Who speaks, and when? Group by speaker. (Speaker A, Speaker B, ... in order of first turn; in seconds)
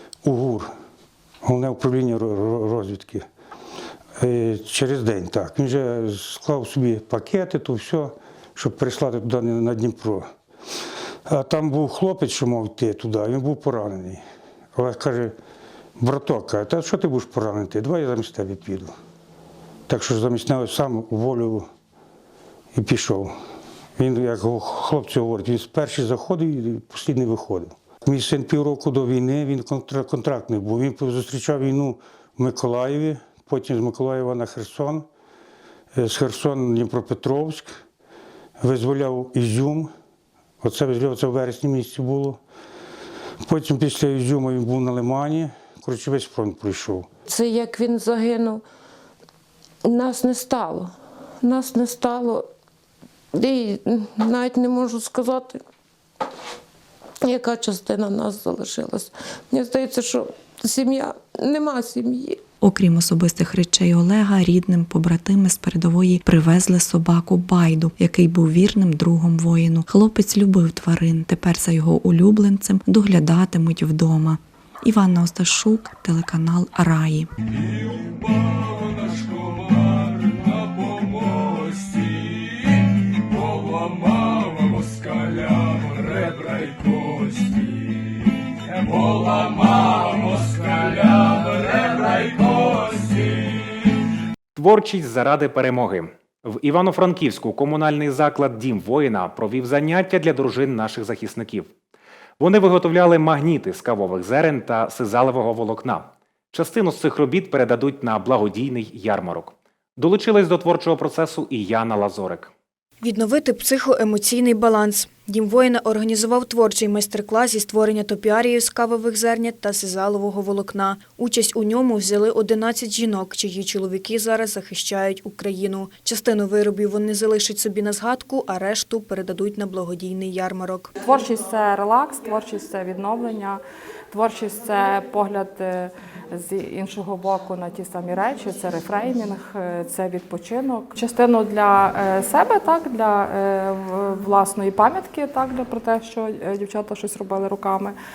Speaker A: 0.2-0.7, 1.4-3.2, 4.2-10.3, 11.3-14.2, 14.8-15.3, 16.0-18.9, 19.9-21.7, 22.7-23.3, 24.0-35.0, 36.0-37.7, 38.6-39.9, 40.6-42.4, 43.4-47.1
Speaker B: 47.3-48.6, 49.8-52.5, 53.3-55.6, 57.2-62.4
Speaker C: 62.6-77.3
Speaker D: 94.5-101.7, 102.4-112.5
Speaker E: 113.0-130.9
Speaker F: 131.0-133.6, 134.1-147.9